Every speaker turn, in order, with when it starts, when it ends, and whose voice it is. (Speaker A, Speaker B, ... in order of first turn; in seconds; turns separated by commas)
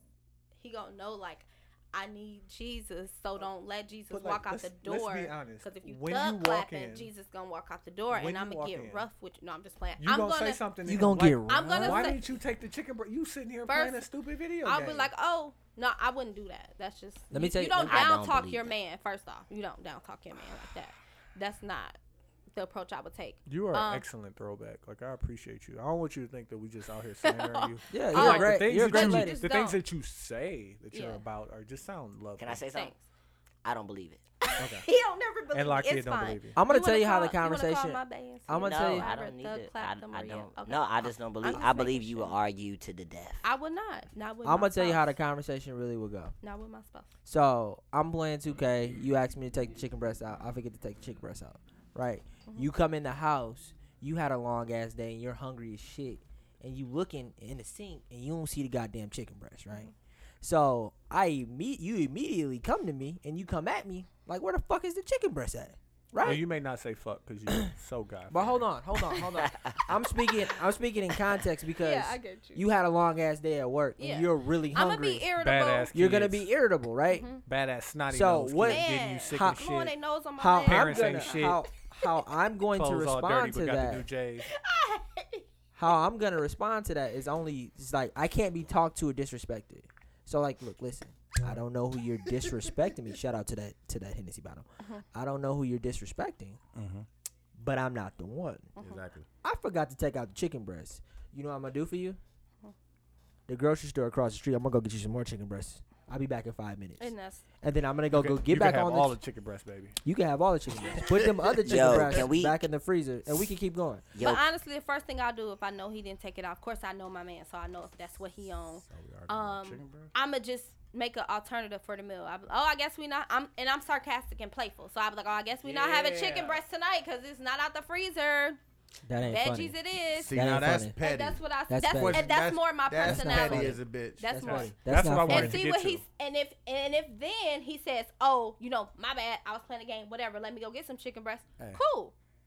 Speaker A: 0.6-10.6, Speaker B: 4.1-7.1, Speaker B: 8.1-9.1, Speaker B: 10.0-15.1, Speaker C: 10.8-12.2, Speaker A: 11.5-12.3, Speaker A: 13.7-14.1, Speaker A: 14.6-22.0, Speaker C: 17.3-18.1, Speaker D: 17.8-18.7, Speaker A: 22.5-24.1, Speaker B: 23.5-32.6, Speaker A: 27.2-29.8, Speaker C: 27.9-29.4, Speaker A: 30.9-31.2, Speaker D: 32.4-32.9, Speaker A: 32.7-33.0, Speaker D: 33.6-34.2, Speaker A: 34.4-42.4, Speaker B: 34.6-34.9, Speaker B: 35.5-36.6, Speaker C: 36.6-39.1, Speaker D: 38.6-43.5, Speaker A: 43.4-45.2, Speaker C: 44.4-46.3, Speaker A: 46.4-47.1, Speaker C: 47.3-66.4, Speaker B: 66.2-68.7, Speaker C: 68.3-75.3, Speaker D: 69.5-69.8, Speaker A: 71.8-72.7, Speaker A: 74.0-75.9, Speaker B: 75.4-76.5, Speaker C: 75.9-77.3, Speaker A: 77.1-77.4, Speaker B: 77.5-79.9, Speaker C: 78.1-79.7, Speaker A: 78.7-82.2, Speaker C: 80.4-84.1, Speaker B: 80.6-81.7, Speaker B: 82.7-84.5, Speaker A: 84.5-85.5, Speaker C: 85.8-96.6, Speaker E: 96.7-97.1, Speaker C: 97.6-98.7, Speaker A: 98.8-99.0, Speaker E: 98.8-99.3, Speaker C: 99.4-102.2, Speaker C: 103.5-109.2, Speaker A: 107.0-107.4, Speaker B: 108.1-110.0, Speaker C: 110.0-114.1, Speaker E: 111.5-111.9, Speaker D: 111.6-112.6, Speaker D: 114.1-114.4, Speaker A: 114.2-128.6, Speaker E: 118.8-120.1, Speaker B: 125.6-126.6, Speaker C: 129.1-129.8, Speaker A: 129.2-130.4, Speaker E: 130.1-134.4, Speaker C: 130.3-131.0, Speaker A: 131.0-142.1, Speaker C: 131.7-132.3, Speaker C: 133.0-135.6, Speaker B: 134.4-136.0